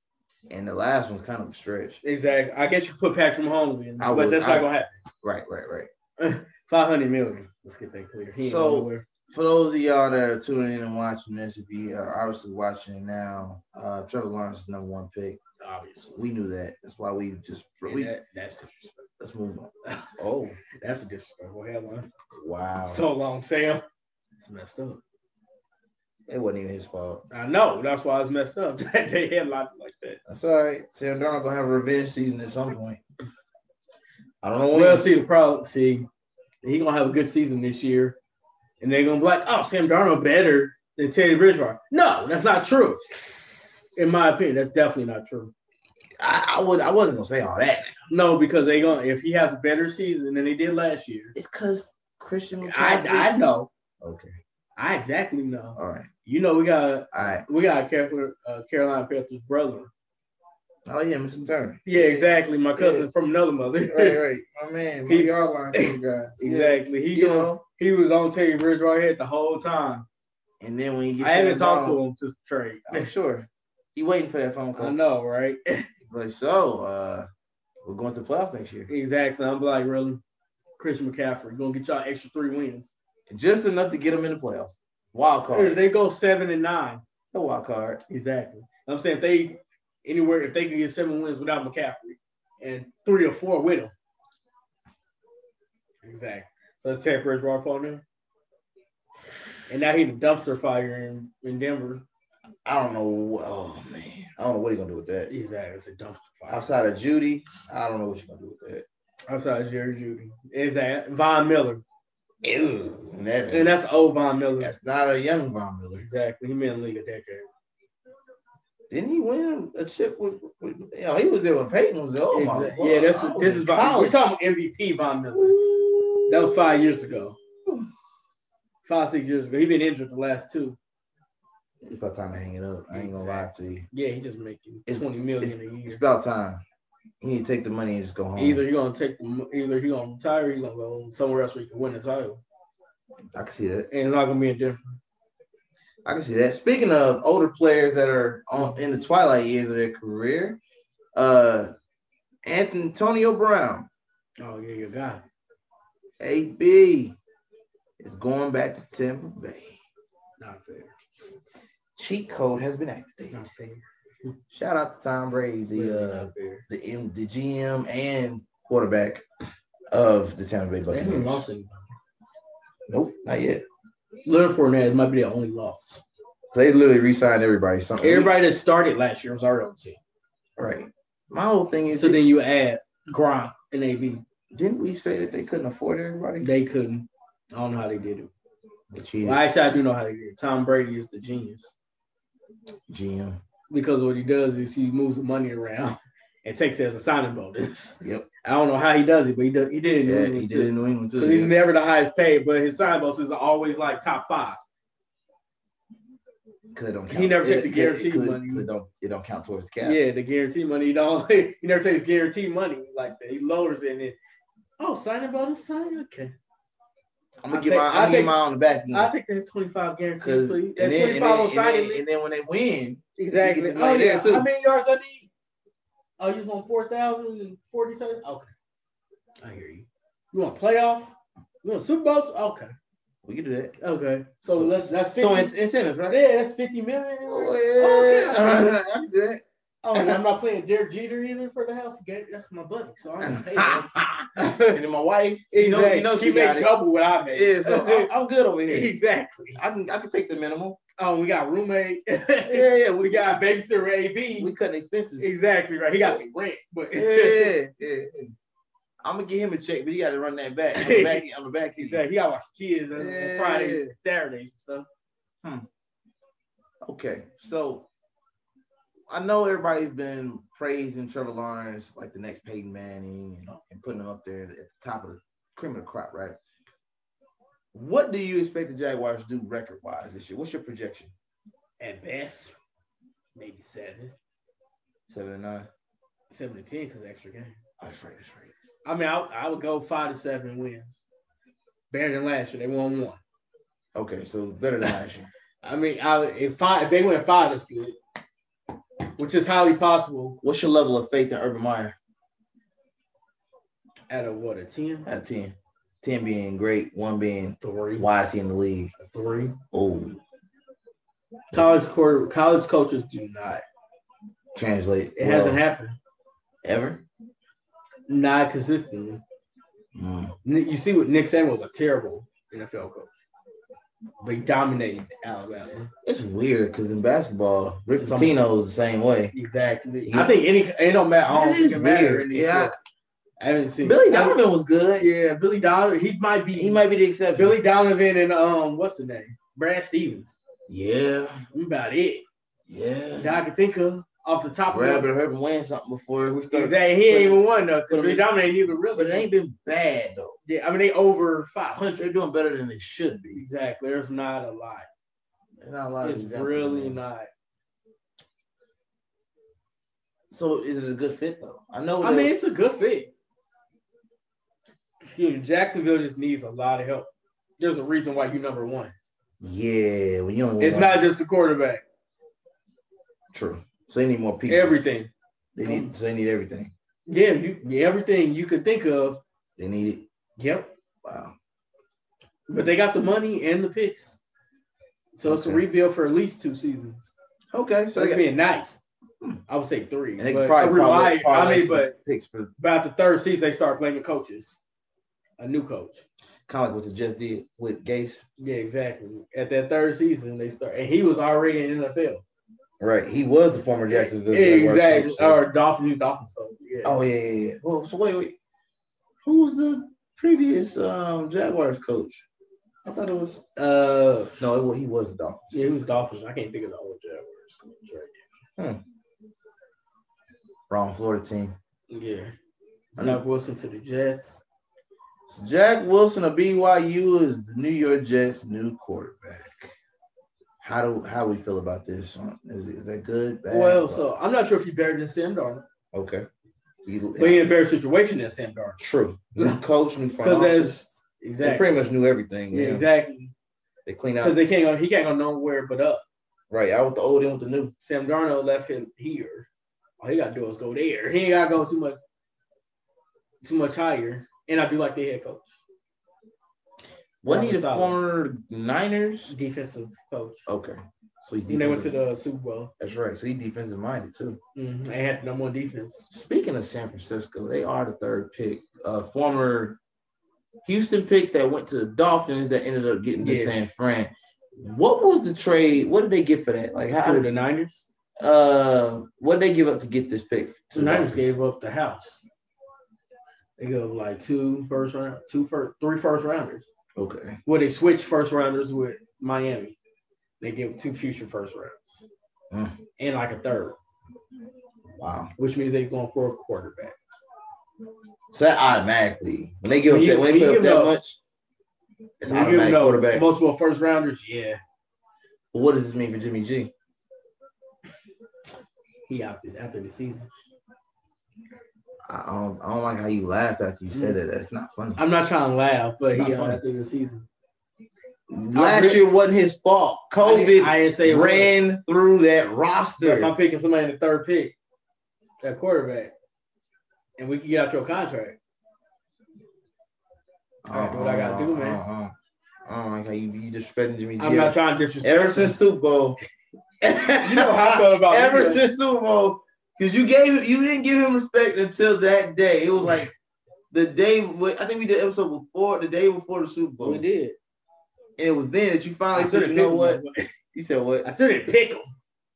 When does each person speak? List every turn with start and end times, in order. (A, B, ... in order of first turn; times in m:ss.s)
0:00.5-0:02.0 A
0:02.0-0:04.9 B
0:04.0-0:05.9 A
0:06.2-0:09.0 B
0:08.4-0:15.4 A
0:15.6-0:16.2 B
0:16.2-0:18.1 A
0:17.8-0:18.9 B
0:19.2-0:20.6 A
0:20.7-0:22.1 B
0:22.4-0:23.0 A
0:22.9-0:23.8 B
0:24.4-0:25.0 B
0:26.3-0:27.2 A
0:27.3-0:30.2 B
0:30.3-0:33.0 A
0:34.4-0:35.1 A
0:34.7-0:36.1 B
0:36.6-0:38.2 B
0:38.8-0:45.5 B
0:46.2-0:48.0 A
0:48.1-0:51.3 B
0:51.3-0:53.4 A
0:52.6-0:53.7 B
0:54.0-0:54.3 A
0:54.8-0:59.9 B
0:55.8-0:56.1 A
0:57.1-0:57.4 A
1:00.9-1:03.1 A
1:01.9-1:04.2 B
1:03.9-1:07.6 A
1:05.1-1:10.1 B
1:10.6-1:12.0 A
1:11.2-1:13.1 B
1:12.9-1:15.0 A
1:14.8-1:15.9 B
1:16.1-1:17.3 A
1:17.8-1:18.9 A
1:18.9-1:20.2 B
1:20.8-1:22.9 B
1:23.3-1:25.8 A
1:25.5-1:27.0 B
1:27.3-1:28.0 A
1:28.1-1:33.9 B
1:36.0-1:38.0 B
1:39.7-1:42.0 B
1:42.7-1:45.3 A
1:45.3-1:46.7 B
1:46.5-1:48.9 A
1:49.3-1:51.8 B
1:52.4-1:53.7 A
1:53.5-1:54.7 B
1:54.6-1:56.1 A
1:56.0-1:57.5 B
1:58.9-2:04.3 A
2:02.3-2:05.6 B
2:05.3-2:06.8 A
2:06.3-2:07.4 B
2:08.8-2:10.8 B
2:11.8-2:13.9 A
2:12.9-2:16.0 B
2:14.9-2:16.6 A
2:17.2-2:18.6 A
2:18.4-2:22.4 B
2:23.4-2:23.9 A
2:23.9-2:25.0 B
2:26.0-2:30.6 A
2:31.2-2:31.7 A
2:32.5-2:33.9 A
2:34.4-2:35.2 B
2:36.2-2:37.2 A
2:38.0-2:39.8 A
2:40.4-2:40.9 B
2:42.0-2:43.4 A
2:43.3-2:44.3 B
2:44.5-2:49.2 A
2:45.7-2:46.6 B
2:49.9-2:51.4 A
2:50.9-2:52.0 B
2:52.9-2:53.6 A
2:54.2-2:56.0 B
2:56.5-2:58.4 A
2:58.0-3:00.0 B
3:00.6-3:02.2 A
3:01.9-3:04.2 B
3:04.5-3:06.5 A
3:06.4-3:08.3 B
3:08.9-3:09.4 A
3:09.2-3:11.7 B
3:12.9-3:13.4 A
3:13.7-3:24.6 B
3:18.0-3:18.3 A
3:20.1-3:21.5 A
3:26.7-3:30.0 A
3:27.1-3:28.7 B
3:29.8-3:34.2 B
3:34.8-3:36.4 B
3:37.4-3:39.1 A
3:37.5-3:38.4 B
3:38.9-3:42.0 B
3:40.2-3:44.5 A
3:43.2-3:45.3 B
3:46.2-3:48.5 B
3:49.4-3:52.7 B
3:53.2-3:53.8 A
3:53.8-3:55.5 B
3:54.5-3:56.2 A
3:56.1-3:58.8 B
3:57.3-4:00.2 A
3:59.8-4:04.8 B
4:03.2-4:08.9 A
4:05.5-4:08.1 B
4:08.7-4:09.6 B
4:09.6-4:10.8 A
4:11.0-4:14.5 B
4:12.5-4:13.4 A
4:14.4-4:15.3 A
4:15.2-4:17.6 B
4:16.0-4:16.2 A
4:16.9-4:18.3 A
4:19.0-4:22.0 A
4:20.8-4:21.3 B
4:21.8-4:24.9 B
4:22.9-4:23.9 A
4:26.8-4:27.9 A
4:29.1-4:36.4 A
4:37.7-4:41.1 A
4:41.8-4:42.6 B
4:43.4-4:44.2 B
4:45.1-4:45.7 A
4:46.3-4:47.6 B
4:47.8-4:48.5 A
4:48.8-4:51.0 B
4:51.9-4:53.2 B
4:54.0-4:55.3 A
4:55.6-4:58.0 B
4:59.2-5:00.4 B
5:00.4-5:02.0 A
5:04.1-5:05.1 B
5:05.0-5:08.9 A
5:07.6-5:08.1 B
5:09.0-5:09.6 B
5:09.7-5:10.2 A
5:11.5-5:13.6 B
5:14.6-5:15.6 A
5:15.2-5:16.0 B
5:16.6-5:17.0 A
5:18.1-5:19.2 B
5:20.0-5:20.4 A
5:20.4-5:23.1 B
5:24.2-5:25.9 B
5:26.0-5:29.3 A
5:28.0-5:28.4 B
5:29.3-5:32.7 B
5:30.0-5:30.4 A
5:31.3-5:32.7 A
5:33.4-5:34.4 B
5:33.8-5:35.1 A
5:35.0-5:36.8 B
5:36.5-5:37.6 A
5:37.3-5:40.4 B
5:40.7-5:41.4 A
5:41.5-5:42.2 B
5:42.7-5:43.4 A
5:43.2-5:45.1 B
5:44.7-5:48.3 A
5:46.5-5:49.3 B
5:48.9-5:50.4 A
5:50.5-5:52.1 B
5:52.0-5:53.4 A
5:53.4-5:54.9 B
5:55.6-5:57.0 A
5:56.0-5:57.3 B
6:00.3-6:02.3 A
6:02.0-6:03.1 B
6:05.0-6:09.0 B
6:09.4-6:11.0 A
6:10.6-6:11.8 B
6:13.3-6:14.8 A
6:14.5-6:15.9 B
6:15.6-6:16.7 A
6:17.1-6:19.2 B
6:19.6-6:20.1 A
6:20.4-6:20.7 B
6:21.0-6:21.3 A
6:22.5-6:24.2 B
6:25.2-6:27.1 B
6:25.3-6:25.6 A
6:27.5-6:28.2 A
6:28.0-6:28.8 B
6:29.5-6:32.0 B
6:30.2-6:32.5 A
6:32.6-6:34.6 B
6:35.4-6:36.0 B
6:36.5-6:38.3 A
6:38.4-6:42.2 B
6:42.8-6:45.4 A
6:43.9-6:47.0 B
6:46.8-6:48.4 A
6:49.2-6:52.2 A
6:52.8-6:53.4 A
6:53.6-6:54.4 B
6:54.4-6:55.6 A
6:55.5-6:58.2 B
7:00.7-7:01.6 A
7:01.9-7:02.4 B
7:03.0-7:04.4 B
7:05.3-7:09.7 A
7:10.6-7:14.1 A
7:13.5-7:15.7 B
7:15.9-7:16.3 A
7:16.8-7:17.5 A
7:17.2-7:18.8 B
7:18.8-7:20.8 A
7:19.4-7:19.6 B
7:20.2-7:21.8 B
7:21.4-7:22.9 A
7:22.5-7:23.3 B
7:23.9-7:24.4 A
7:24.2-7:26.0 B
7:26.5-7:27.7 A
7:27.8-7:29.5 B
7:30.0-7:32.0 B
7:33.4-7:35.6 B
7:37.2-7:39.4 A
7:37.3-7:38.0 B
7:39.3-7:40.5 B
7:40.5-7:42.0 A
7:41.5-7:42.7 B
7:42.8-7:44.4 A
7:44.6-7:46.1 B
7:46.1-7:49.8 A
7:50.6-7:57.3 A
7:53.2-7:53.6 B
7:56.9-7:57.9 B
7:58.2-8:01.3 A
8:00.7-8:02.2 B
8:03.6-8:06.7 B
8:07.0-8:07.4 A
8:07.5-8:09.8 B
8:10.4-8:12.1 B
8:12.5-8:12.8 A
8:13.0-8:13.8 B
8:15.0-8:15.3 A
8:15.4-8:17.0 B
8:18.3-8:21.2 A
8:19.9-8:21.0 B
8:22.2-8:23.3 A
8:22.3-8:24.6 B
8:25.5-8:26.7 A
8:29.1-8:30.3 B
8:32.1-8:35.0 A
8:33.9-8:34.2 B
8:35.0-8:37.3 B
8:36.1-8:36.6 A
8:38.3-8:43.3 A
8:38.5-8:39.1 B
8:40.2-8:41.6 B
8:43.0-8:44.6 B
8:45.4-8:46.1 B
8:47.2-8:48.4 B
8:50.6-8:52.1 A
8:50.7-8:51.8 B
8:52.7-8:56.2 A
8:54.2-8:55.6 B
8:56.8-9:03.1 A
8:57.1-8:58.6 B
9:03.7-9:07.0 A
9:06.8-9:07.4 B
9:08.2-9:10.0 A
9:09.1-9:10.3 B
9:10.5-9:11.1 A
9:11.0-9:11.9 B